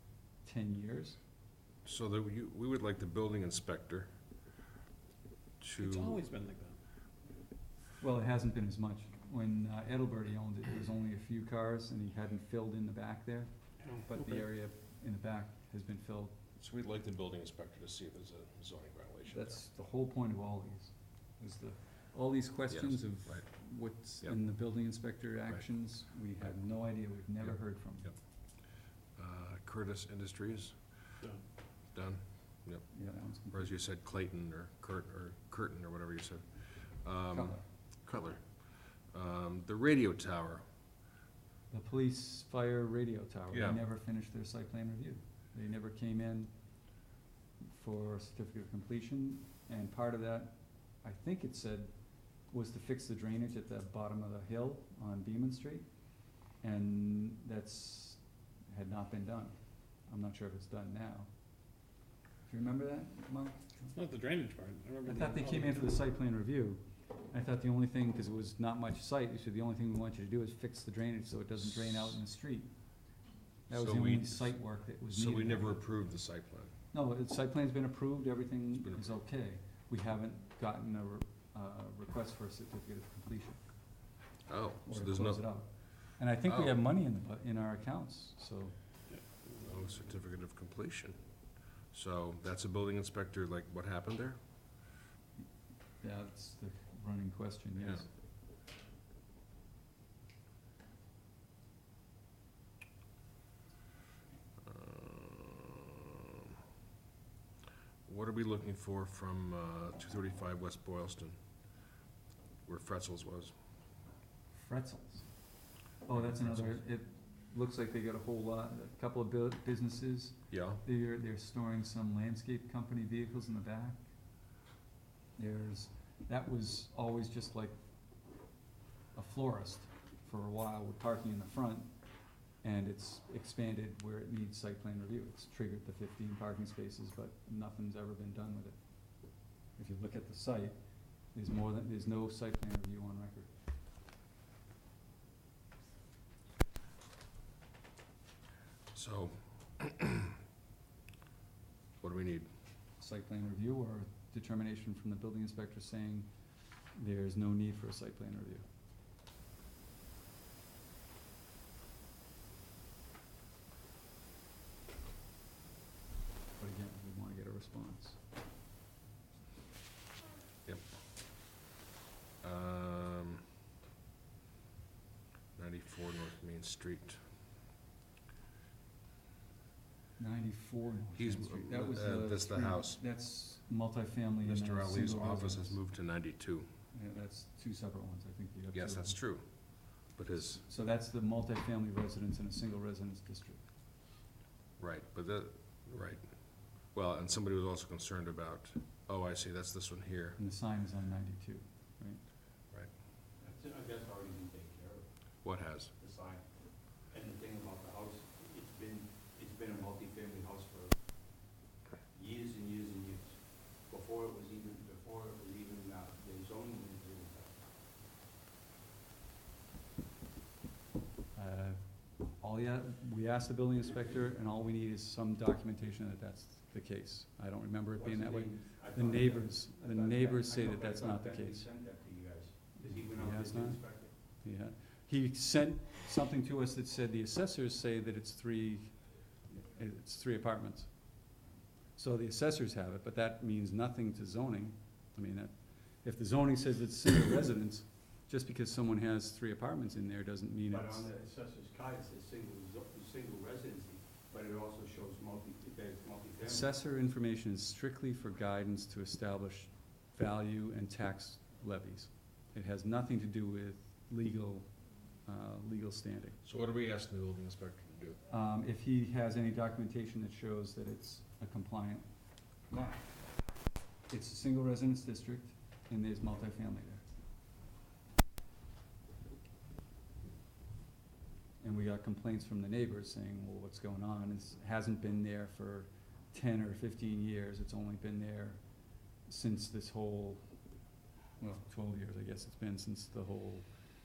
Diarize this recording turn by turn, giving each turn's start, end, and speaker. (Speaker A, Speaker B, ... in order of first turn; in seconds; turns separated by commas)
Speaker A: 0.4-1.2, Speaker B: 1.9-4.1, Speaker B: 5.6-6.2, Speaker C: 5.8-6.8, Speaker A: 8.0-16.4, Speaker C: 13.8-14.4, Speaker B: 16.6-19.6, Speaker A: 19.3-28.1, Speaker B: 22.7-23.5, Speaker B: 27.5-28.2, Speaker B: 29.1-31.2, Speaker B: 31.9-40.6, Speaker A: 32.9-33.8, Speaker A: 37.3-37.6, Speaker A: 41.7-46.5, Speaker B: 43.5-43.8, Speaker A: 47.6-55.9, Speaker A: 56.5-61.3, Speaker A: 62.5-63.9, Speaker C: 63.9-65.9, Speaker A: 65.0-72.8, Speaker A: 73.7-75.8, Speaker B: 73.7-76.7, Speaker A: 76.9-83.6, Speaker B: 84.5-85.5, Speaker A: 84.8-88.8, Speaker B: 86.4-86.8, Speaker C: 89.1-89.7, Speaker B: 89.6-94.4, Speaker A: 96.0-98.1, Speaker B: 97.8-98.0, Speaker B: 104.6-106.5, Speaker B: 108.1-111.4, Speaker B: 112.7-113.5, Speaker A: 114.5-115.3, Speaker A: 116.0-124.0, Speaker B: 116.1-116.8, Speaker B: 120.5-120.8, Speaker A: 125.4-127.8, Speaker A: 129.1-132.0, Speaker A: 132.6-138.8, Speaker A: 139.7-140.8, Speaker A: 141.3-143.5, Speaker B: 148.9-150.3, Speaker B: 152.0-152.5, Speaker A: 153.0-156.3, Speaker A: 156.9-158.7, Speaker A: 166.6-168.2, Speaker B: 170.7-170.9, Speaker B: 172.4-173.5, Speaker B: 175.6-177.2, Speaker A: 180.2-185.8, Speaker B: 181.2-183.0, Speaker B: 184.4-186.7, Speaker A: 186.9-189.2, Speaker B: 188.7-190.6, Speaker A: 190.6-193.6, Speaker B: 194.8-200.4, Speaker A: 200.4-202.2, Speaker D: 203.4-211.5, Speaker B: 205.4-205.9, Speaker D: 212.1-217.6, Speaker A: 221.3-231.7, Speaker D: 228.0-234.1, Speaker A: 232.8-241.3, Speaker A: 242.0-251.1, Speaker D: 250.7-256.7, Speaker A: 256.4-264.7, Speaker A: 265.2-266.4, Speaker B: 266.4-268.2, Speaker A: 268.3-272.1, Speaker A: 272.6-273.5, Speaker A: 274.1-277.0, Speaker A: 281.6-288.6, Speaker A: 289.3-290.4, Speaker A: 291.4-293.8